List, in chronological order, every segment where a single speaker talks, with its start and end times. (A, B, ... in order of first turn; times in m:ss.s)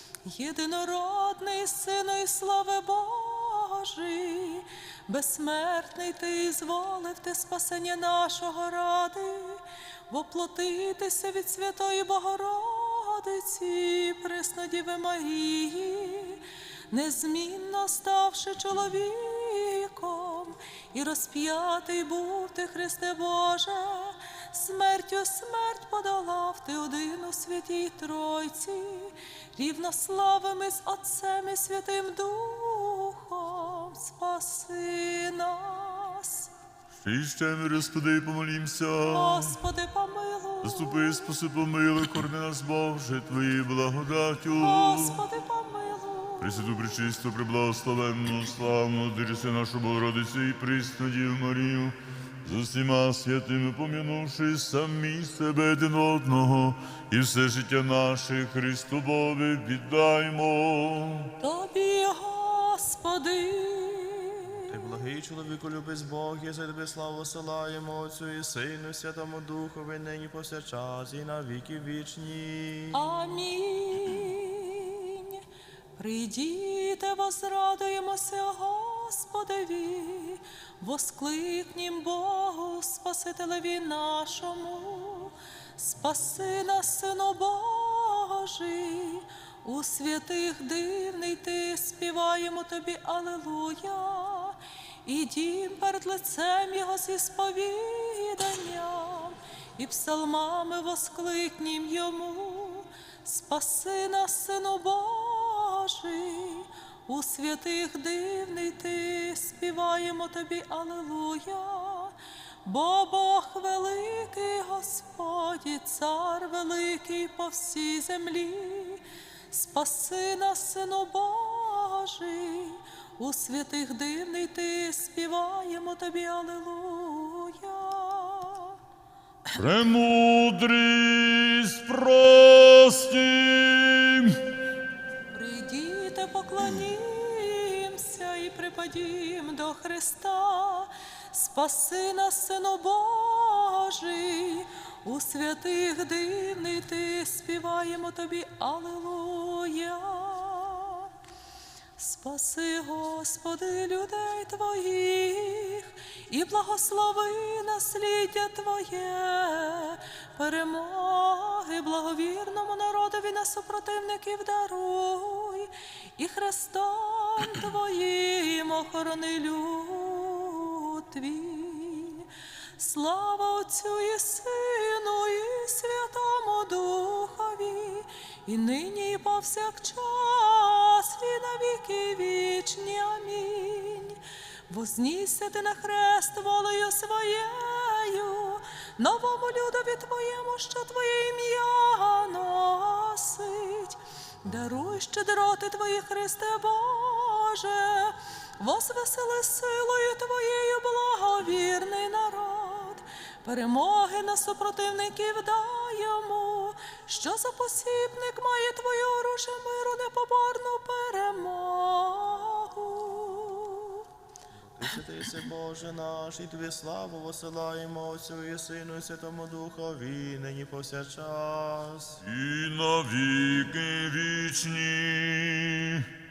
0:00.2-0:36.5 A
0:37.0-0:39.5 B
0:39.0-0:41.2 A
0:40.6-0:45.2 B
0:44.6-0:46.6 A
0:46.4-1:01.3 B
1:01.4-1:04.6 A
1:04.7-1:13.0 C
1:12.9-1:15.4 A
1:16.0-2:08.8 A
2:09.5-2:14.4 B
2:15.3-2:31.1 A
2:32.0-3:34.0 A
3:34.7-3:42.2 C
3:42.2-3:46.1 B